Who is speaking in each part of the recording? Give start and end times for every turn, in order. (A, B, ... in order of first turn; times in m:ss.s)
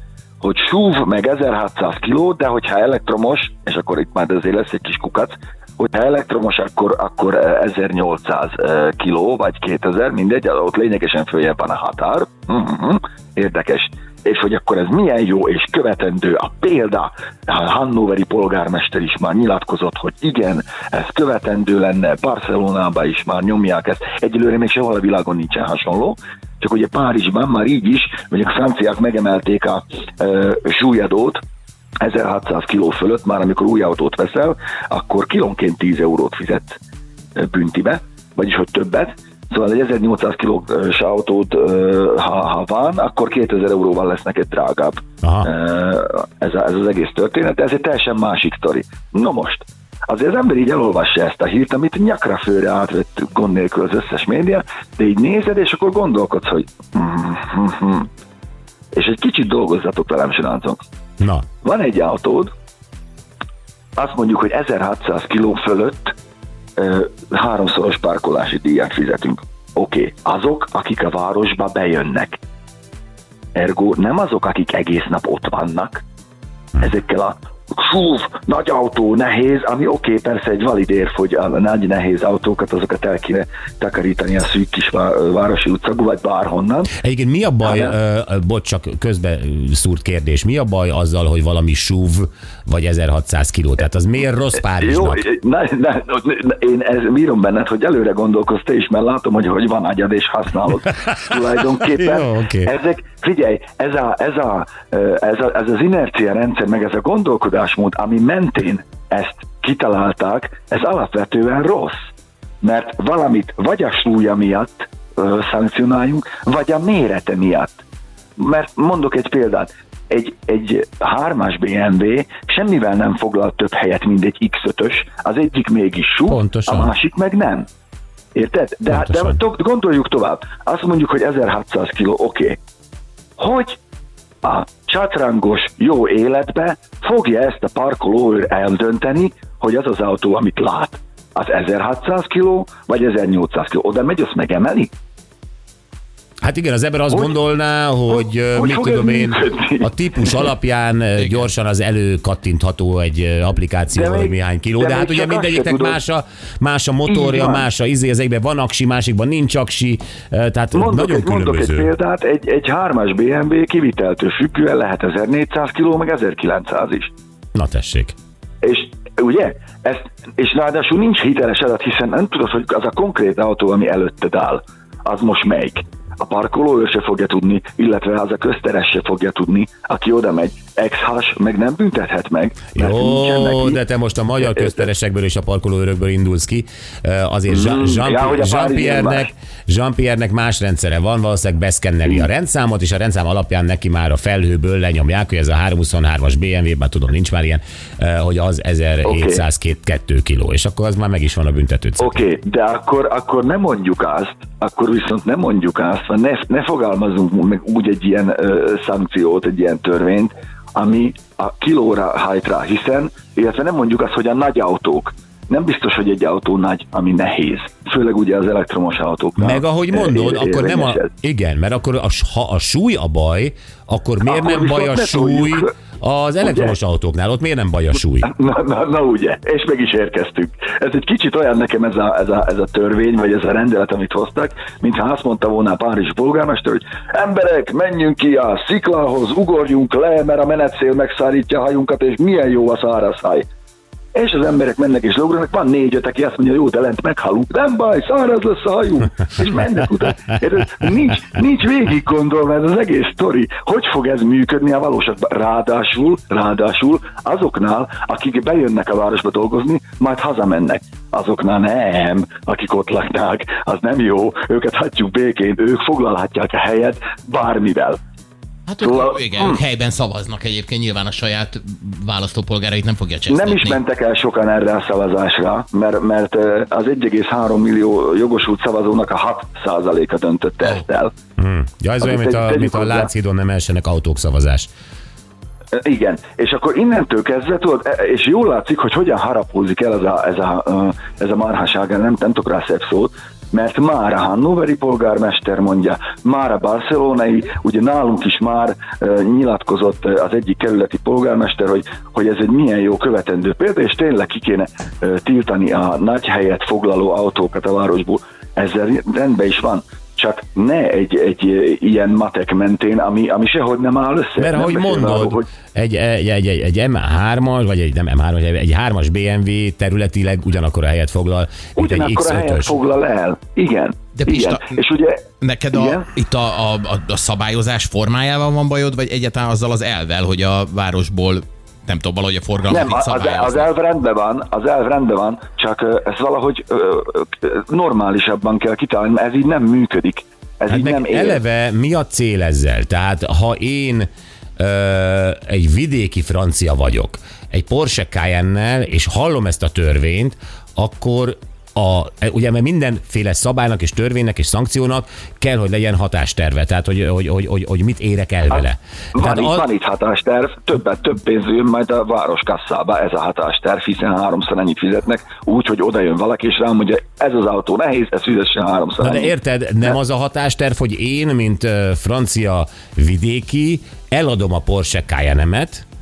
0:00.4-0:31.4 A
0:32.0-0:36.8 A
0:37.4-0:58.1 A
0:45.2-0:45.5 B
0:58.9-1:00.8 A
1:01.2-1:01.4 B
1:01.6-1:02.5 A
1:04.0-1:06.2 A
1:06.8-1:12.4 A
1:13.6-1:16.0 A
1:16.8-1:26.9 A
1:27.0-1:35.3 B
1:27.6-1:28.0 A
1:34.7-1:52.1 A
1:41.8-1:42.7 B
1:52.6-1:57.8 A
1:58.4-2:07.7 A
2:06.3-2:06.9 B
2:08.3-2:12.6 A
2:08.9-2:09.4 B
2:13.4-2:13.8 A
2:14.4-2:24.9 A
2:26.4-2:41.9 B
2:27.1-2:27.4 A
2:28.1-2:30.5 A
2:31.2-2:31.5 C
2:33.9-2:36.0 A
2:37.1-2:37.6 A
2:40.7-2:47.1 A
2:47.5-2:48.1 B
2:48.6-3:03.8 A
3:02.8-3:22.2 B
3:04.4-3:04.9 A
3:07.5-3:09.3 A
3:19.0-3:19.4 A
3:22.0-3:41.1 A
3:39.4-3:48.3 B
3:44.2-3:45.7 A
3:46.4-3:46.7 A
3:48.2-4:03.5 A
4:04.1-4:28.0 A
4:28.7-4:33.8 C
4:28.8-4:29.6 A
4:33.3-4:41.1 A
4:41.4-4:44.7 B
4:42.0-4:43.1 A
4:45.7-5:15.4 A
5:14.4-5:22.8 B
5:21.8-5:26.1 A
5:24.2-5:24.8 C
5:25.4-5:33.7 C
5:32.7-5:41.4 A
5:40.7-5:59.6 B
5:58.5-6:09.3 A
6:09.0-6:15.8 B